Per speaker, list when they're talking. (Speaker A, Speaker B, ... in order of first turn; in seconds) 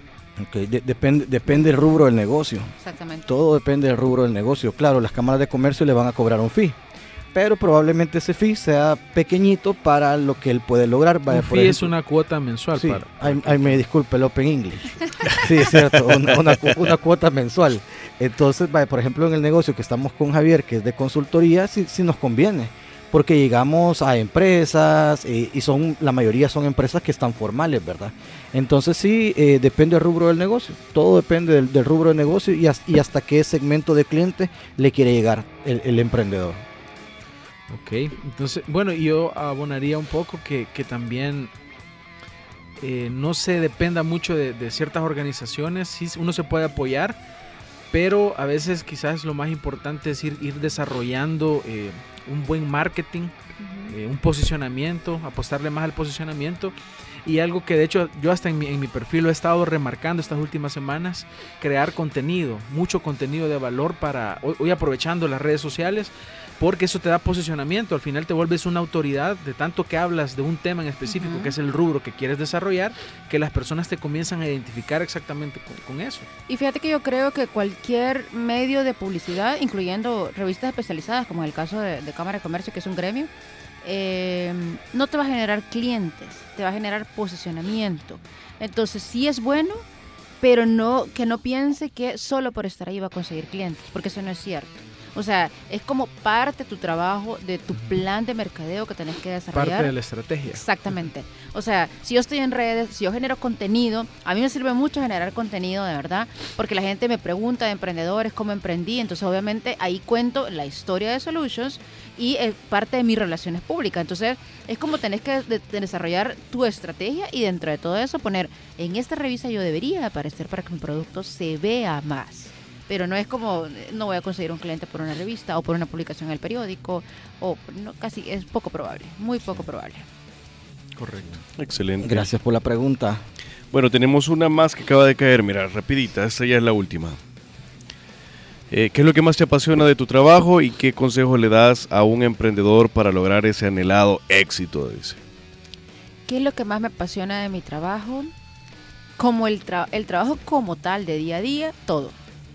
Speaker A: 0.4-2.7, 3.3-6.8, 7.3-11.9, 12.7-36.6, 132.0-133.2
Speaker B: 2.8-3.3, 53.6-53.9, 71.0-71.5, 76.5-83.3, 83.8-89.8, 90.4-99.9, 100.5-130.1, 146.3-148.3, 149.2-152.2
Speaker C: 11.3-13.8, 37.7-41.5, 42.8-47.1, 47.9-53.3, 53.9-76.3, 99.5-100.6, 131.0-131.4
Speaker D: 131.6-132.3, 133.7-137.2, 138.7-145.2